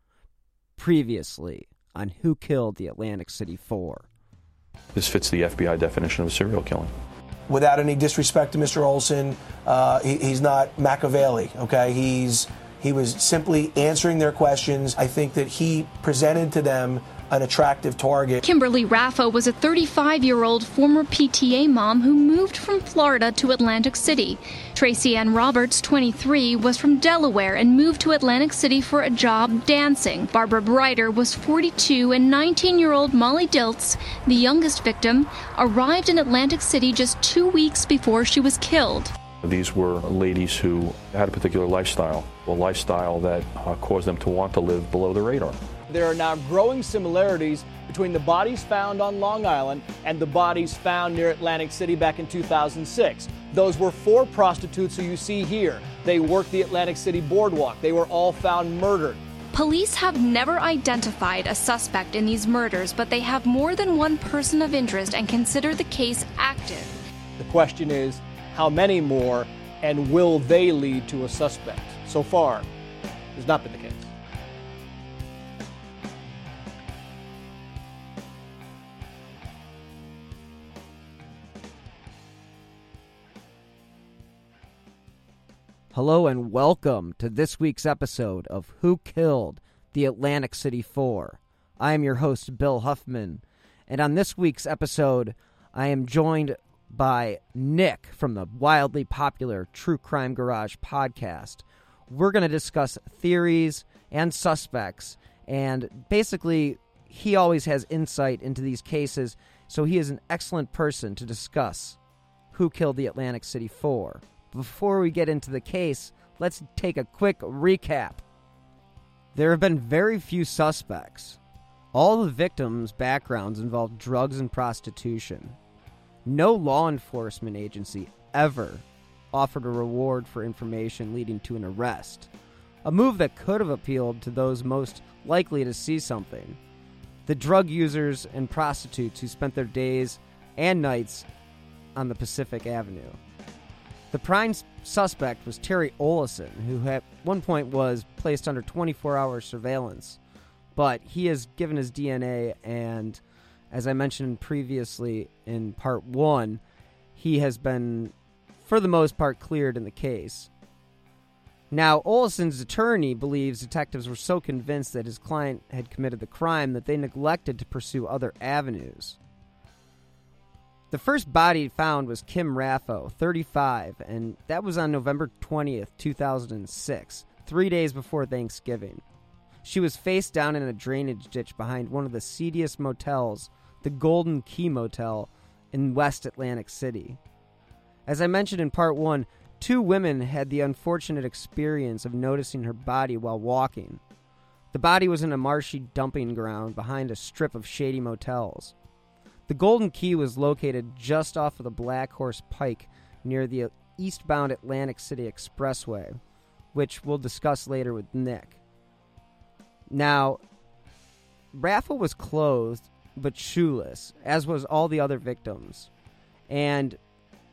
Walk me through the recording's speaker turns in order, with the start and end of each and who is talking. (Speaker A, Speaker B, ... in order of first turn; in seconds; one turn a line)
Speaker A: 0.8-4.0
Speaker B: 4.9-6.9
Speaker C: 7.5-18.4
Speaker D: 18.4-39.1
Speaker B: 39.4-45.6
Speaker E: 45.9-59.2
Speaker D: 59.5-66.9
Speaker E: 67.4-72.7
Speaker E: 73.3-74.1
Speaker A: 85.9-112.0
Speaker A: 112.5-118.2
Speaker A: 119.3-121.4
Speaker A: 121.9-125.6
Speaker A: 126.2-132.3
Speaker A: 132.8-136.6
Speaker A: 137.2-141.3
Speaker A: 141.9-143.2
Speaker A: 144.1-150.2
Speaker A: 150.8-153.2
Speaker A: 153.7-156.6
Speaker A: 157.2-160.5
Speaker A: 161.7-169.2
Speaker A: 170.9-179.0
Speaker A: 179.6-187.2
Speaker A: 188.1-194.0
Speaker A: 194.7-198.7
Speaker A: 199.5-206.2
Speaker A: 206.7-208.6
Speaker A: 209.9-210.4
Speaker A: 211.5-215.9
Speaker A: 216.5-217.0